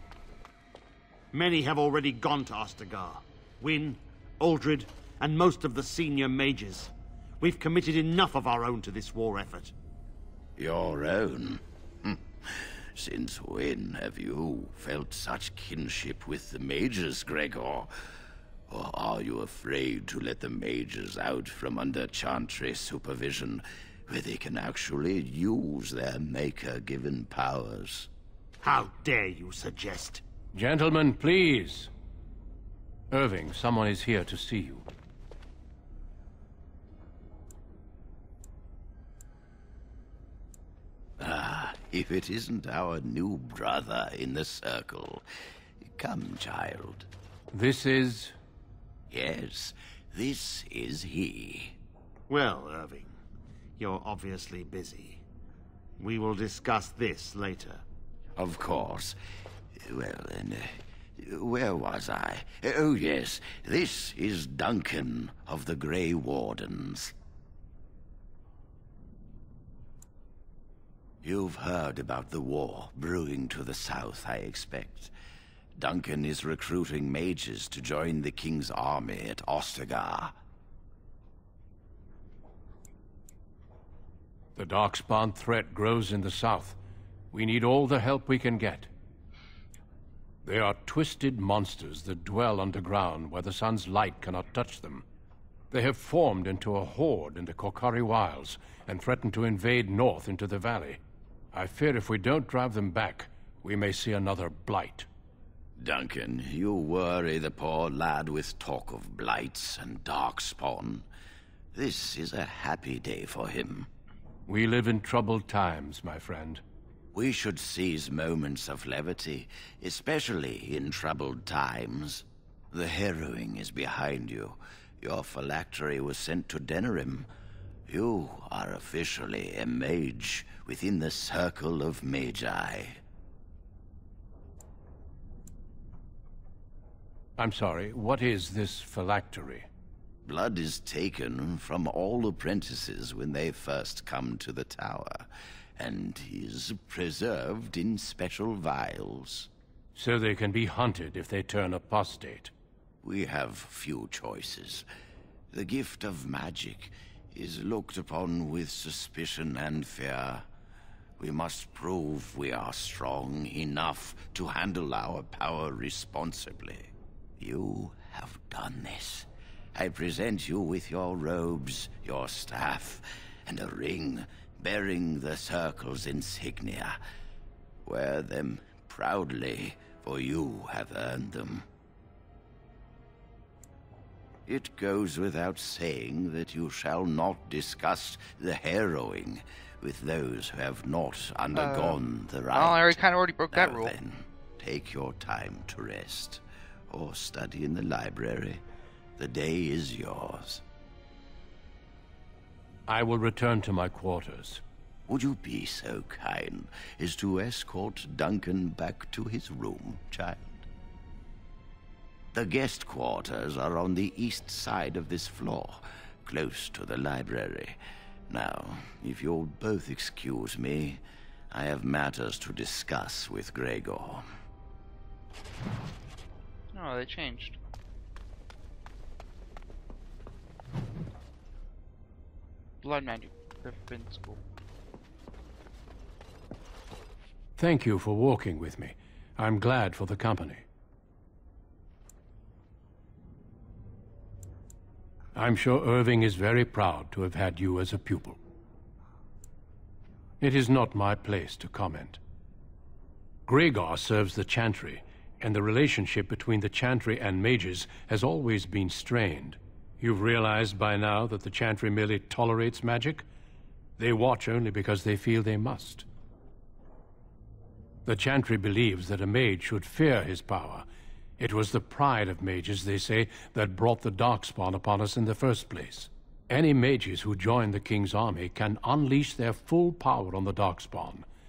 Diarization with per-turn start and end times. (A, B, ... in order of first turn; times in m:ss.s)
0:01.3-0:09.7 A
0:10.6-0:12.1 B
0:13.0-0:17.9 B
0:18.7-0:28.1 B
0:28.6-0:30.2 A
0:30.5-0:31.9 C
0:33.1-0:34.8 C
0:41.2-0:45.2 B
0:46.0-0:47.1 B
0:47.5-0:48.3 C
0:49.1-0:51.7 B
0:52.3-0:53.1 A
0:53.8-0:55.2 A
0:56.0-0:57.8 A
0:58.4-0:59.1 B
0:59.8-1:00.6 B
1:01.2-1:07.1 B
1:11.2-1:15.1 B
1:15.8-1:20.3 B
1:24.6-1:26.8 C
1:27.3-1:28.9 C
1:30.4-1:35.0 C
1:35.7-1:41.0 C
1:41.5-1:45.1 C
1:45.8-1:51.0 B
1:51.7-1:53.9 B
1:54.5-1:56.6 C
1:57.1-2:07.3 B
2:07.9-2:13.0 B
2:17.4-2:19.7 C
2:20.2-2:25.2 B
2:25.8-2:29.5 B
2:29.9-2:32.5 C
2:33.0-2:34.8 B
2:35.5-2:40.4 B
2:41.2-2:57.0 B
2:57.8-3:01.6 B
3:04.5-3:13.0 B
3:11.5-3:14.0 D
3:13.5-3:18.6 B
3:19.2-3:20.6 B
3:22.9-3:24.6 C
3:25.1-3:30.6 B
3:32.3-3:37.8 B
3:38.3-3:41.0 B
3:41.5-3:44.2 B
3:46.7-3:47.6 D
3:52.8-3:54.4 D
3:57.6-4:00.6 C
4:05.3-4:08.4 C
4:10.4-4:12.2 C
4:13.5-4:23.2 C
4:24.0-4:26.0 C
4:28.0-4:30.8 C
4:31.4-4:41.2 C